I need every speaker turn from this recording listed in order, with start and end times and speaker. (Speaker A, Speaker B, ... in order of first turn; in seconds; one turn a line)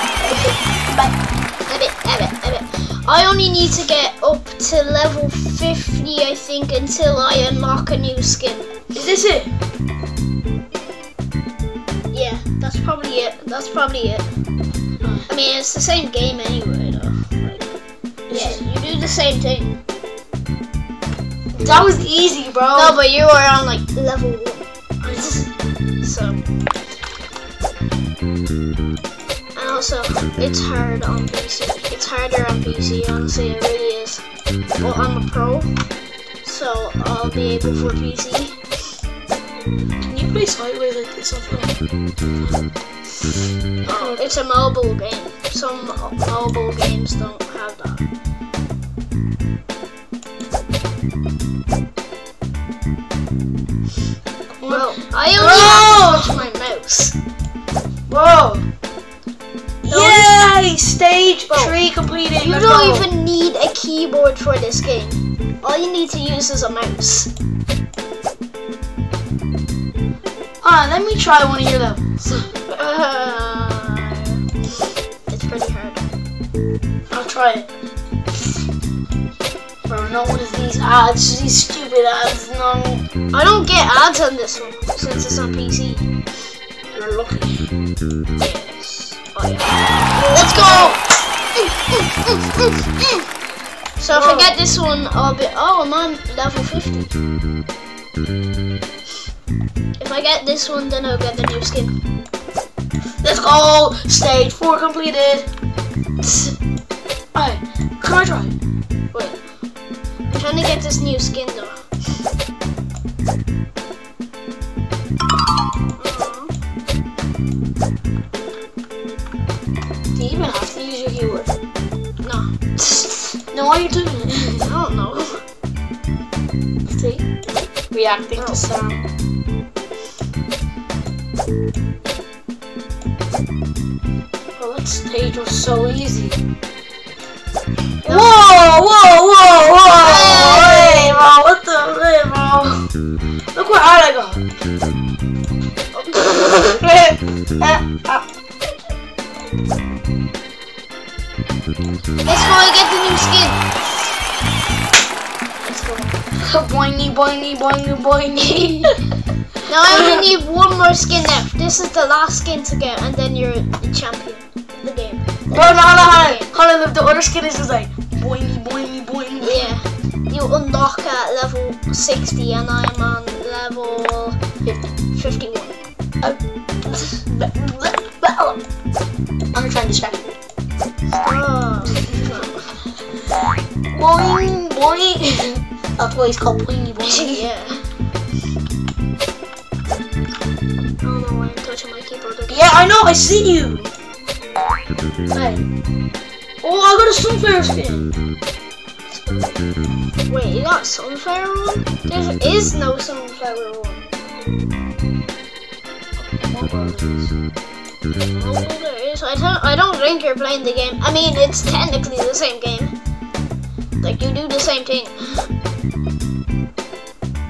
Speaker A: 0.2-1.1
Speaker B: 1.7-8.7
Speaker A: 8.9-9.5
Speaker B: 12.1-14.2
Speaker A: 15.0-15.3
Speaker B: 15.3-17.7
Speaker A: 18.3-18.6
Speaker B: 18.3-19.8
Speaker A: 21.6-23.0
Speaker B: 22.7-25.3
Speaker A: 25.0-25.5
Speaker B: 26.0-26.4
Speaker B: 29.5-34.2
Speaker B: 34.8-35.7
Speaker B: 36.4-38.6
Speaker A: 40.0-41.7
Speaker A: 43.8-44.4
Speaker B: 43.8-48.0
Speaker A: 54.6-56.5
Speaker B: 54.6-57.1
Speaker A: 58.1-58.6
Speaker A: 59.8-63.1
Speaker B: 59.9-60.3
Speaker B: 61.5-61.7
Speaker B: 62.4-67.3
Speaker A: 70.6-72.5
Speaker B: 72.7-74.4
Speaker B: 75.3-76.0
Speaker A: 77.1-77.7
Speaker A: 79.8-83.0
Speaker B: 83.3-86.1
Speaker A: 86.9-87.7
Speaker B: 88.4-91.0
Speaker A: 90.1-91.0
Speaker B: 91.5-93.2
Speaker B: 94.0-97.1
Speaker A: 94.1-94.5
Speaker B: 100.0-102.0
Speaker A: 103.2-105.5
Speaker B: 106.2-106.5
Speaker A: 107.3-108.5
Speaker B: 109.1-109.4
Speaker B: 110.3-111.8
Speaker B: 116.0-116.5
Speaker A: 120.2-121.5
Speaker B: 122.2-123.4
Speaker A: 123.5-124.7
Speaker B: 124.6-125.4
Speaker A: 126.8-127.2
Speaker A: 127.9-129.1
Speaker B: 128.4-128.6
Speaker A: 134.6-136.4
Speaker B: 138.0-138.3
Speaker A: 138.0-142.9
Speaker B: 139.9-141.2
Speaker A: 143.5-144.5
Speaker B: 145.9-146.2
Speaker A: 146.1-148.2
Speaker B: 152.2-153.7
Speaker B: 155.6-156.2
Speaker A: 156.4-159.0
Speaker B: 159.7-166.5
Speaker A: 159.8-160.2
Speaker A: 165.5-169.7
Speaker B: 169.4-174.4
Speaker A: 174.6-174.9
Speaker B: 175.1-175.7
Speaker A: 176.2-178.6
Speaker A: 179.5-180.2
Speaker B: 181.1-182.7
Speaker A: 181.9-182.5
Speaker A: 183.9-187.4
Speaker B: 187.0-187.9
Speaker B: 191.0-192.7
Speaker A: 192.5-193.9
Speaker A: 195.3-195.6
Speaker A: 196.6-198.1
Speaker B: 199.1-199.6
Speaker B: 200.3-204.1
Speaker A: 206.2-207.3
Speaker B: 208.3-212.9
Speaker B: 214.0-215.5